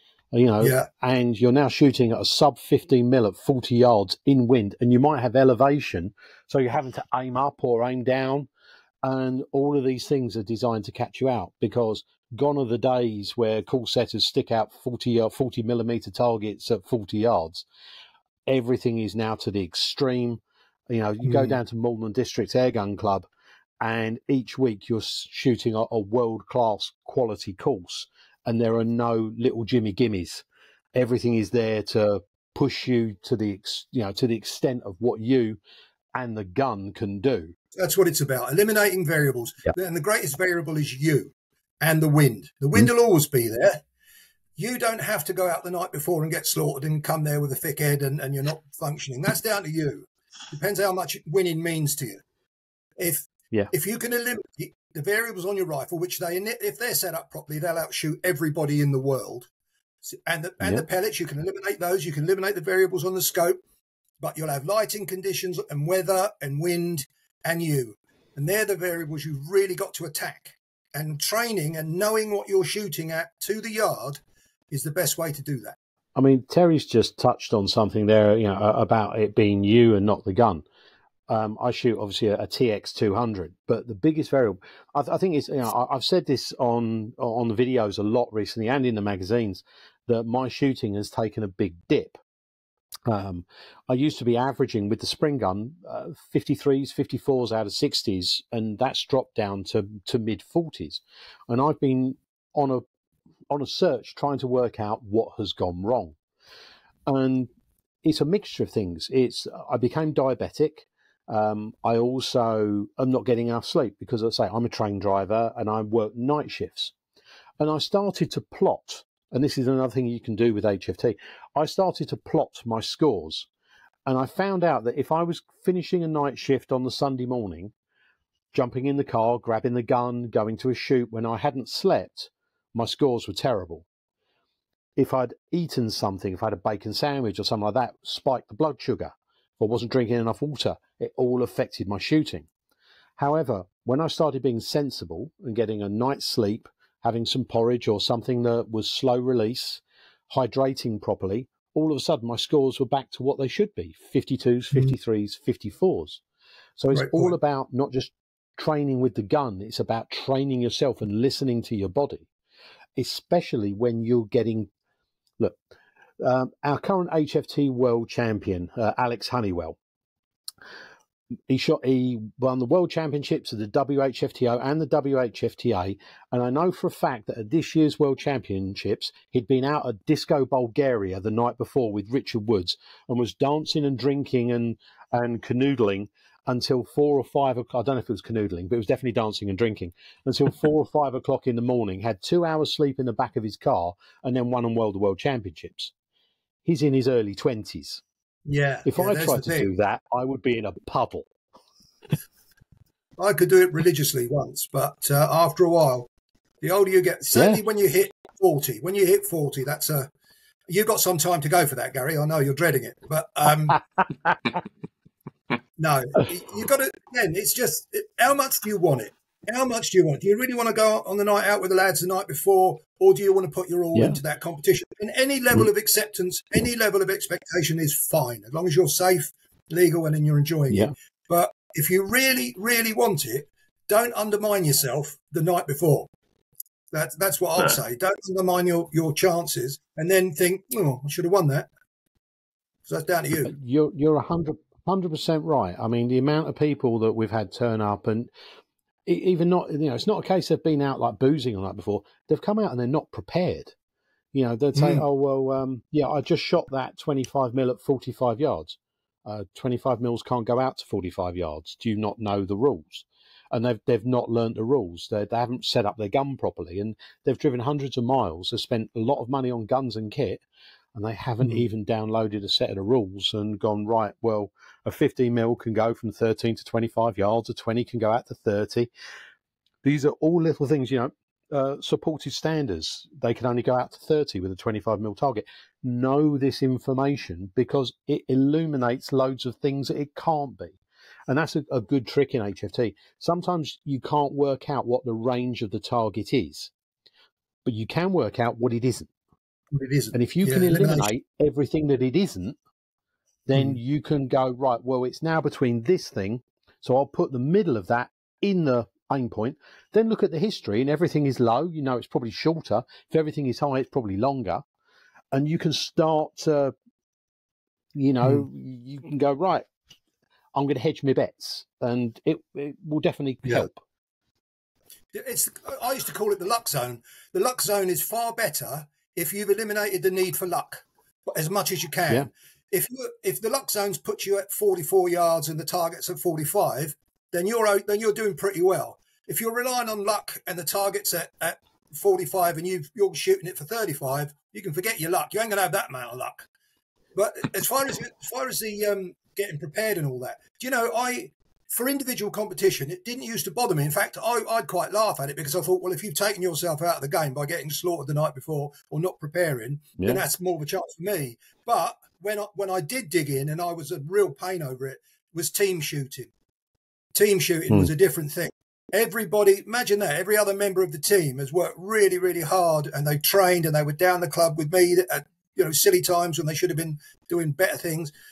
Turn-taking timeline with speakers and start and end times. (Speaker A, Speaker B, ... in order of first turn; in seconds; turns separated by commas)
Speaker A: 0.3-8.5, Speaker B: 0.6-0.9, Speaker A: 9.0-17.6, Speaker A: 18.5-23.3, Speaker B: 21.2-21.6, Speaker A: 23.8-35.6, Speaker A: 36.1-37.5, Speaker B: 37.8-43.8, Speaker B: 44.6-52.2, Speaker B: 53.0-59.5, Speaker B: 60.1-63.6, Speaker A: 60.6-60.9, Speaker B: 64.2-75.8, Speaker A: 76.2-80.7, Speaker A: 81.3-92.2, Speaker A: 93.1-102.8, Speaker A: 103.5-106.2, Speaker A: 107.1-107.5, Speaker A: 108.0-116.9, Speaker A: 117.6-123.5, Speaker A: 124.1-127.7, Speaker A: 128.5-133.9, Speaker A: 135.0-142.5, Speaker A: 143.2-156.2, Speaker A: 156.8-162.3, Speaker B: 156.9-157.3, Speaker A: 163.0-164.7, Speaker A: 166.2-169.8, Speaker A: 171.5-195.9, Speaker A: 196.7-198.0, Speaker B: 198.5-199.7, Speaker A: 198.8-201.3, Speaker B: 203.2-206.1, Speaker B: 206.6-210.1, Speaker A: 207.3-207.6, Speaker B: 210.7-213.8, Speaker B: 215.8-236.1, Speaker B: 236.9-241.7, Speaker B: 242.9-243.5, Speaker A: 243.4-248.3, Speaker A: 249.1-253.7, Speaker A: 254.3-270.4, Speaker B: 254.7-255.1, Speaker A: 270.9-278.9, Speaker A: 279.8-296.7, Speaker A: 297.6-299.1, Speaker B: 299.7-301.1, Speaker A: 300.1-302.6, Speaker A: 303.5-314.6, Speaker B: 303.5-303.8, Speaker A: 315.3-316.7, Speaker A: 317.9-319.7, Speaker A: 320.6-323.8, Speaker B: 325.1-346.5, Speaker B: 347.1-366.3, Speaker B: 367.1-378.1